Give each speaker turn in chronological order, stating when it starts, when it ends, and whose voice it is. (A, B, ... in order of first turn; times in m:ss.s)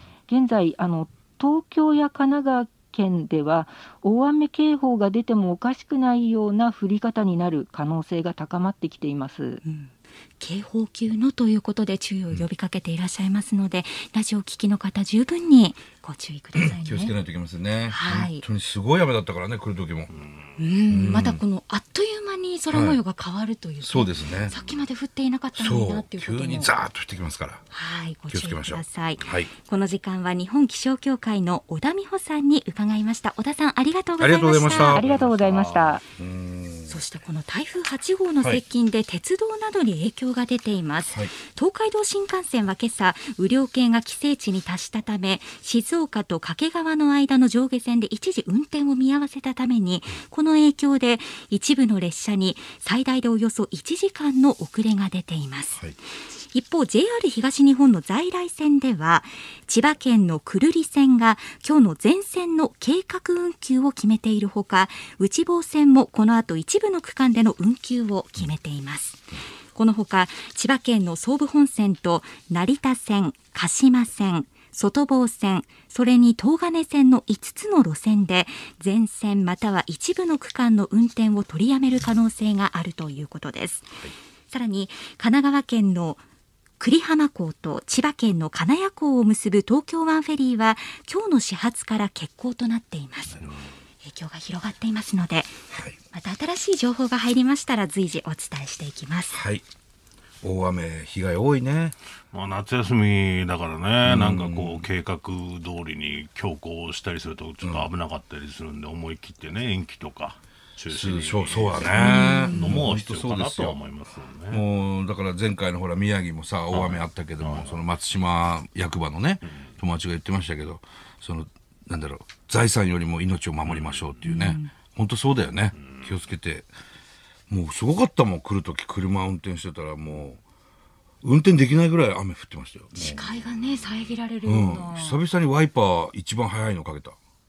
0:00.3-0:09.6 A
0:09.6-0:17.1 B
0:16.6-0:20.1 C
0:17.9-0:18.4 B
0:20.1-0:20.6 D
0:20.6-0:26.7 B
0:20.9-0:21.4 C
0:22.7-0:23.0 C
0:23.8-0:24.6 C
0:24.5-0:24.8 D
0:25.6-0:27.6 C
0:27.7-0:35.1 B
0:28.3-0:29.5 C
0:34.2-0:35.1 C
0:34.8-0:36.0 A
0:34.9-0:36.0 D
0:36.2-0:37.0 C
0:36.9-0:55.8 B
0:41.1-0:41.3 C
0:56.5-1:24.0 B
1:24.5-1:26.2 B
1:26.8-1:33.4 B
1:34.0-1:35.5 B
1:35.7-1:36.0 C
1:36.1-1:39.4 B
1:39.3-1:39.6 C
1:40.4-1:42.0 C
1:42.3-1:54.6 D
1:44.0-1:44.9 C
1:47.6-1:47.9 C
1:50.9-1:53.8 C
1:52.0-1:52.8 B
1:54.5-2:06.7 C
1:56.7-1:57.8 D
2:03.7-2:04.2 D
2:04.2-2:04.7 B
2:05.8-2:06.1 D
2:07.5-2:10.4 C
2:11.2-2:13.2 C
2:13.0-2:15.2 B
2:13.0-2:14.2 D
2:14.4-2:17.2 C